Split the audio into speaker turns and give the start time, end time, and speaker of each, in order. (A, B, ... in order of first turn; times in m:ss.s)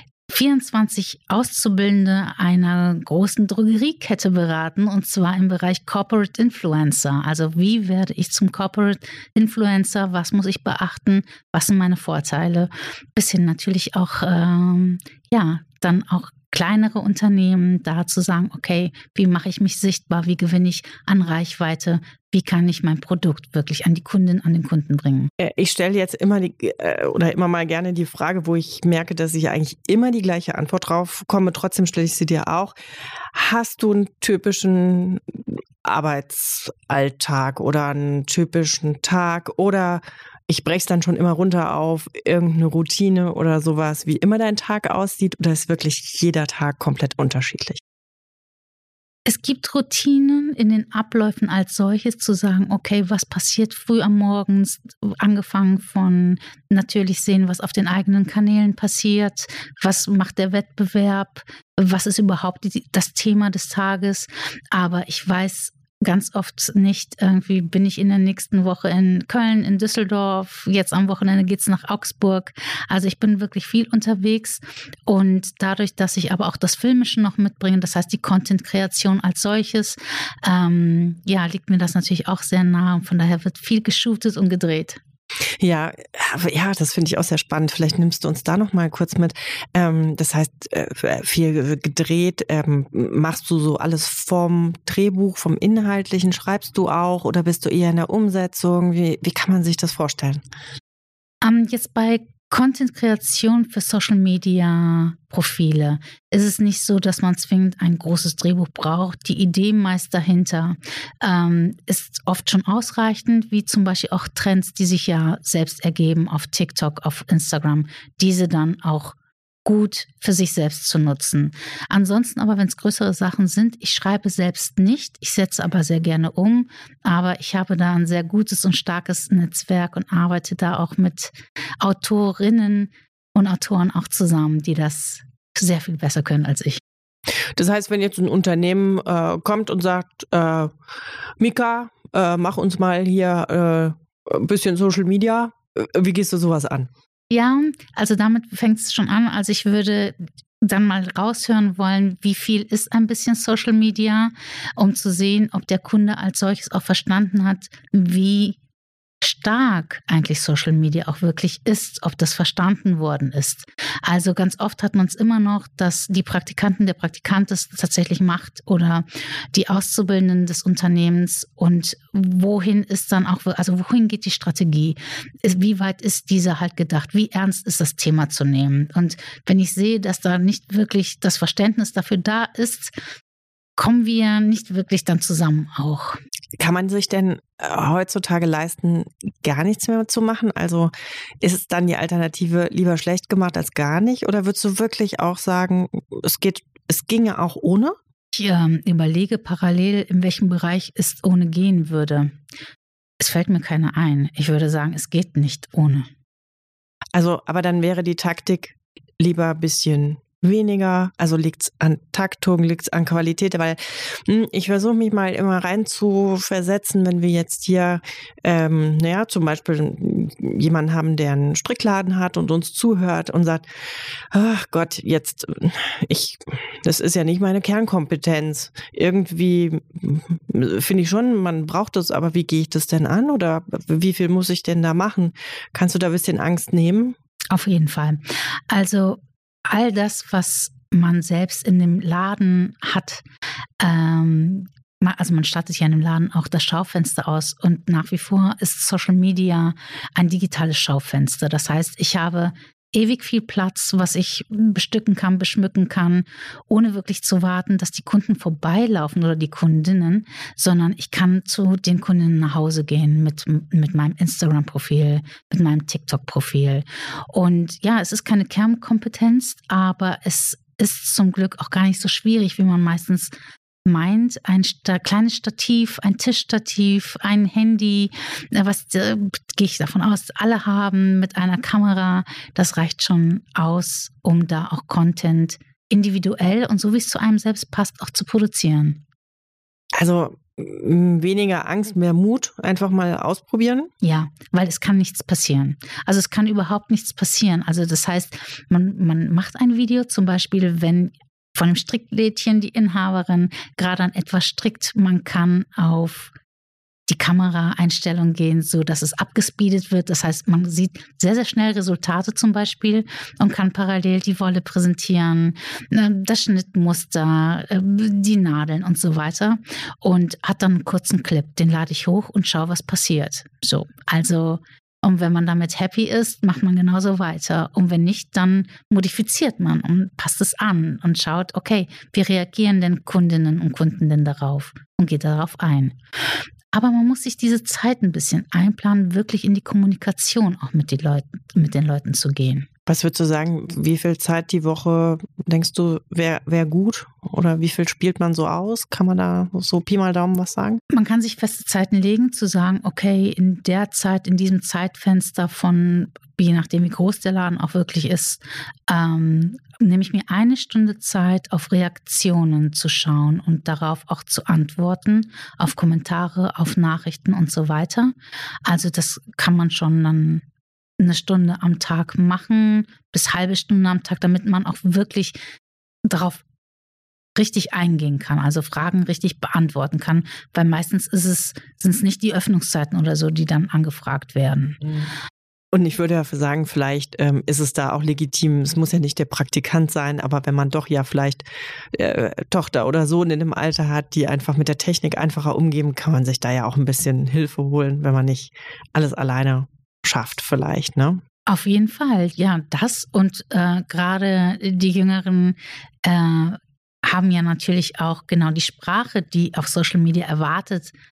0:00.3-0:25.3 A
0:25.4-0:32.7 B
0:33.3-0:47.8 B
0:49.2-1:25.0 A
1:25.6-1:40.4 B
1:41.4-2:16.8 A
2:17.5-2:20.7 B
2:21.4-2:26.9 B
2:27.3-2:38.6 A
2:39.2-3:02.9 A
3:03.8-3:06.2 A
3:06.6-3:18.0 B
3:18.3-3:22.3 A
3:23.2-3:26.1 A
3:27.1-3:43.6 B
3:44.3-3:57.2 B
3:57.5-4:03.2 A
4:03.8-4:33.3 A
4:33.8-4:49.0 A
4:50.0-4:53.9 B
4:54.0-5:06.3 A
5:07.1-5:36.0 A
5:36.7-5:42.7 A
5:42.9-5:50.8 B
5:50.9-6:08.1 A
6:08.6-6:10.4 A
6:11.0-6:15.4 A
6:16.0-6:16.4 A
6:17.4-6:24.8 A
6:25.7-6:41.2 B
6:41.5-6:50.9 A